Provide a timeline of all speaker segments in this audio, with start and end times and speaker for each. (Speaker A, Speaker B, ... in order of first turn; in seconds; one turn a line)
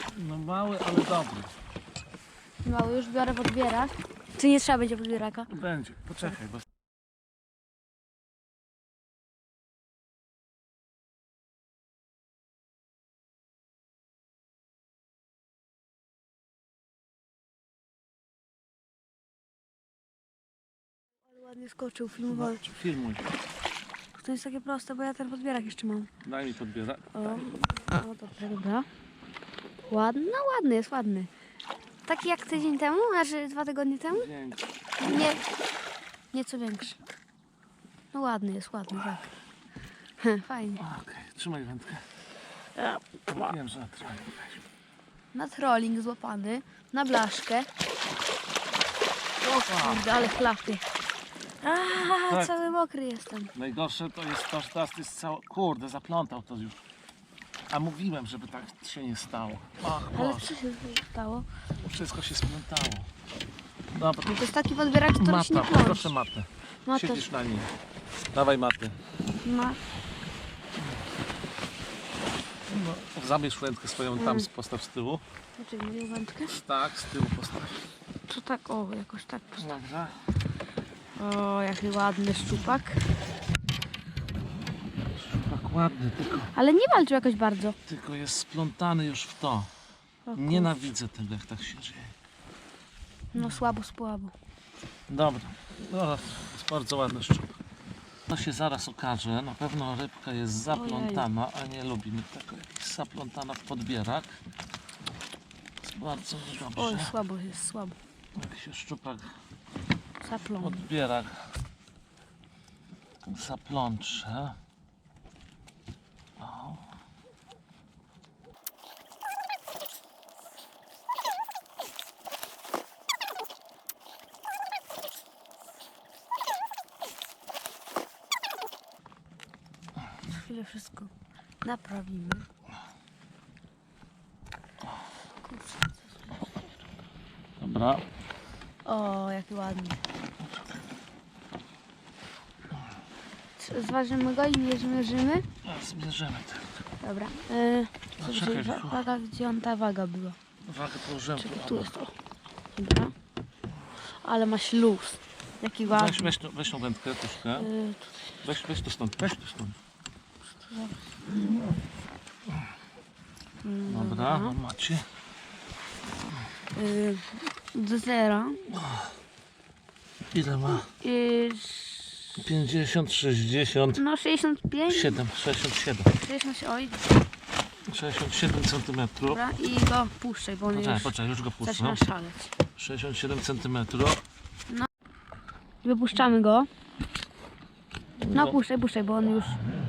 Speaker A: 0.1-1.5
Speaker B: 2.6-5.5
Speaker A: 5.5-6.6
Speaker B: 21.3-22.6
Speaker A: 22.2-23.3
Speaker B: 24.1-26.1
Speaker A: 26.2-27.5
Speaker B: 27.1-28.9
Speaker B: 29.9-31.3
Speaker B: 32.0-34.3
Speaker A: 34.1-34.7
Speaker B: 35.0-35.4
Speaker B: 36.3-37.0
Speaker B: 38.1-39.3
Speaker B: 40.2-40.8
Speaker A: 40.8-42.1
Speaker B: 42.8-43.0
Speaker A: 43.3-44.6
Speaker B: 45.3-47.7
Speaker B: 49.5-50.8
Speaker A: 49.5-50.1
Speaker B: 51.6-53.5
Speaker A: 52.3-52.6
Speaker A: 53.5-56.8
Speaker A: 57.7-60.6
Speaker B: 60.1-61.5
Speaker A: 61.8-63.1
Speaker A: 63.9-64.4
Speaker B: 64.2-66.1
Speaker A: 65.1-67.7
Speaker B: 66.8-67.2
Speaker A: 68.3-69.0
Speaker B: 69.4-69.8
Speaker A: 72.7-75.2
Speaker B: 74.2-74.5
Speaker B: 75.6-76.6
Speaker A: 76.5-77.8
Speaker B: 78.3-79.7
Speaker A: 79.6-80.3
Speaker B: 81.1-83.1
Speaker A: 85.1-86.5
Speaker B: 86.5-87.8
Speaker A: 87.9-89.7
Speaker B: 90.3-90.8
Speaker A: 90.3-92.1
Speaker B: 93.3-94.3
Speaker A: 95.1-97.6
Speaker A: 98.3-104.4
Speaker B: 100.7-101.3
Speaker A: 105.8-107.2
Speaker B: 106.7-108.0
Speaker A: 108.3-109.3
Speaker B: 110.2-110.8
Speaker A: 110.6-111.5
Speaker A: 113.2-114.6
Speaker A: 116.4-116.9
Speaker B: 130.3-131.1
Speaker B: 131.6-132.5
Speaker B: 135.5-136.0
Speaker A: 137.6-138.1
Speaker B: 138.8-140.0
Speaker B: 143.6-145.4
Speaker A: 145.6-146.8
Speaker B: 147.0-150.4
Speaker A: 148.2-149.1
Speaker A: 150.6-151.9
Speaker B: 151.4-152.1
Speaker B: 152.7-153.1
Speaker B: 154.0-156.3
Speaker A: 155.8-157.7
Speaker B: 157.5-158.2
Speaker A: 158.4-159.8
Speaker B: 160.6-160.9
Speaker B: 163.6-164.6
Speaker A: 163.9-165.1
Speaker B: 166.7-168.6
Speaker A: 168.7-169.1
Speaker A: 170.3-170.9
Speaker B: 170.9-172.3
Speaker A: 172.3-174.0
Speaker B: 173.9-175.2
Speaker A: 174.9-176.1
Speaker B: 176.2-177.1
Speaker A: 177.9-179.4
Speaker B: 179.3-182.5
Speaker A: 180.7-182.0
Speaker A: 182.8-184.2
Speaker B: 185.8-186.7
Speaker A: 188.2-188.6
Speaker B: 188.3-189.6